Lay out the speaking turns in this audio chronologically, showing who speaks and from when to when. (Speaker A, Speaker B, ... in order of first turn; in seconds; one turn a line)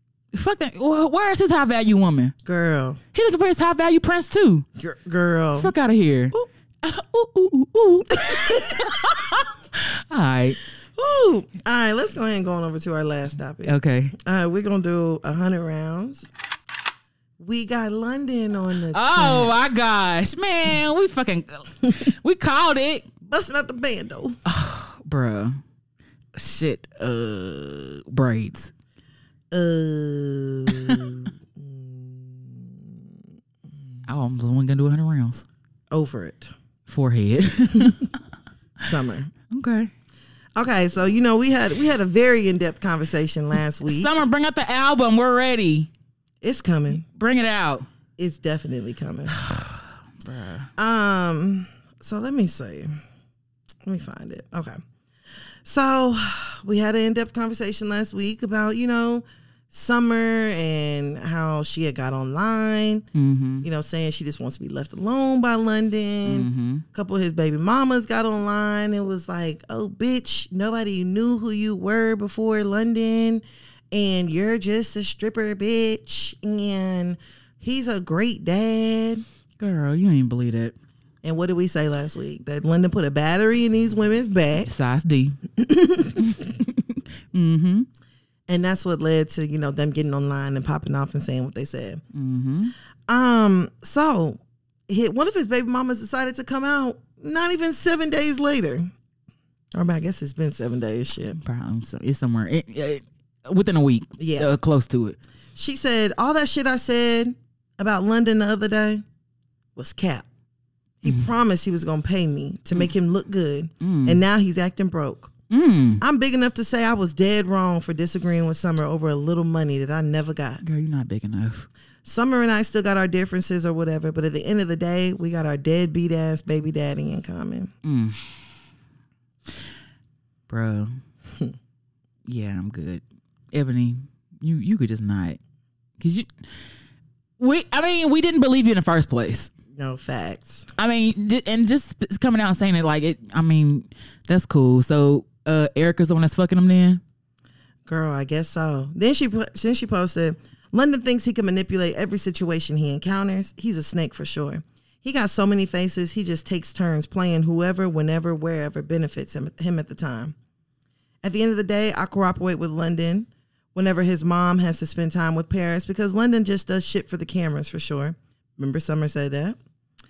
Speaker A: 0.3-2.3
Speaker B: 2.5-3.0
Speaker A: 3.1-4.7
Speaker B: 4.8-5.7
Speaker A: 5.6-10.6
Speaker B: 8.1-8.9
Speaker B: 11.0-16.3
Speaker A: 13.7-14.2
Speaker B: 17.4-19.5
Speaker A: 18.9-23.1
Speaker B: 23.2-24.4
Speaker A: 24.4-25.6
Speaker A: 26.4-28.7
Speaker B: 29.5-33.0
Speaker A: 30.7-31.0
Speaker A: 34.1-35.5
Speaker B: 35.9-36.5
Speaker A: 36.9-38.1
Speaker B: 38.9-39.3
Speaker A: 39.5-39.9
Speaker B: 40.6-44.1
Speaker A: 43.9-45.9
Speaker B: 46.4-47.0
Speaker A: 47.0-47.9
Speaker B: 48.2-49.4
Speaker A: 49.4-50.7
Speaker B: 50.8-53.0
Speaker B: 53.8-54.8
Speaker B: 55.6-63.1
Speaker A: 63.1-63.7
Speaker B: 63.6-79.2
Speaker A: 66.3-66.8
Speaker A: 79.6-80.8
Speaker B: 81.2-84.7
Speaker A: 84.7-85.4
Speaker B: 85.6-86.3
Speaker A: 86.2-87.9
Speaker B: 88.5-92.0
Speaker A: 92.1-92.7
Speaker B: 93.1-98.9
Speaker B: 99.7-101.4
Speaker A: 101.4-105.2
Speaker B: 104.2-104.5
Speaker B: 105.6-109.0
Speaker B: 109.8-110.3
Speaker B: 111.0-115.3
Speaker A: 113.8-114.2
Speaker A: 115.5-116.0
Speaker B: 116.0-120.6
Speaker A: 120.6-121.7
Speaker B: 122.0-127.7
Speaker A: 127.8-128.2
Speaker A: 130.5-131.0
Speaker A: 132.3-135.4
Speaker A: 136.0-136.3
Speaker A: 137.4-139.5
Speaker B: 139.8-140.7
Speaker A: 140.8-147.0
Speaker B: 147.9-160.3
Speaker B: 161.2-169.6